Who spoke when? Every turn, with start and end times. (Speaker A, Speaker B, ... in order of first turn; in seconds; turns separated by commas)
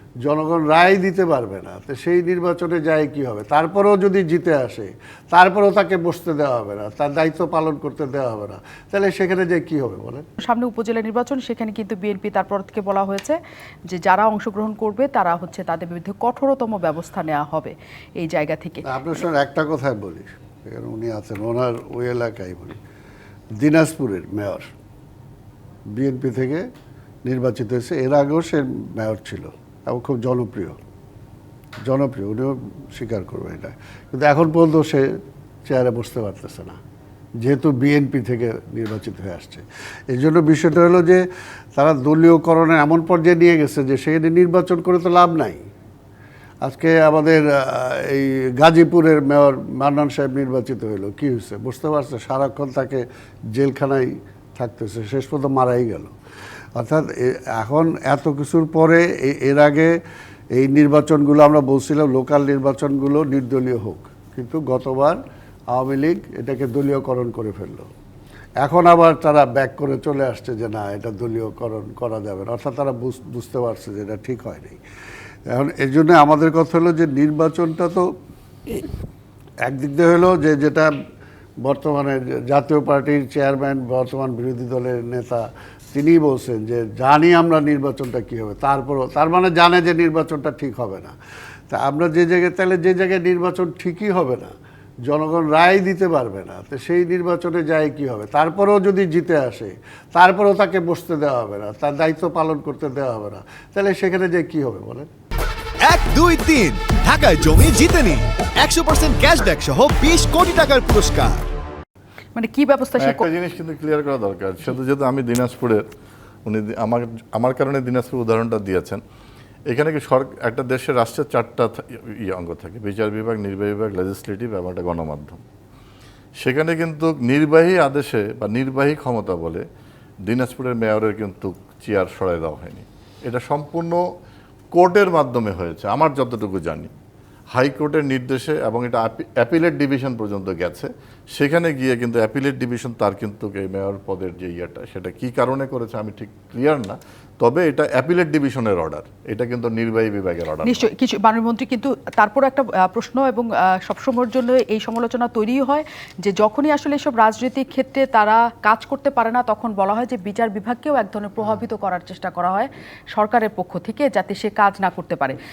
Speaker A: 0.2-10.3, Speaker B: 10.4-13.4, Speaker B: 13.9-18.9, Speaker A: 18.9-22.8, Speaker A: 23.6-24.7, Speaker A: 25.9-26.7, Speaker A: 27.2-30.8, Speaker A: 31.8-35.1, Speaker A: 35.7-36.8, Speaker A: 37.4-41.2, Speaker A: 41.8-45.6, Speaker A: 46.6-56.1, Speaker A: 56.8-60.0, Speaker A: 60.5-65.2, Speaker A: 65.7-67.9, Speaker A: 68.6-74.8, Speaker A: 75.5-78.1, Speaker A: 79.6-80.9, Speaker A: 81.6-91.1, Speaker A: 91.7-105.1, Speaker C: 105.8-111.5, Speaker B: 112.4-113.3, Speaker D: 113.0-115.8, Speaker D: 116.5-119.0, Speaker D: 119.7-125.4, Speaker D: 126.4-129.6, Speaker D: 130.3-134.0, Speaker D: 134.7-136.9, Speaker D: 137.6-150.9, Speaker B: 150.6-165.4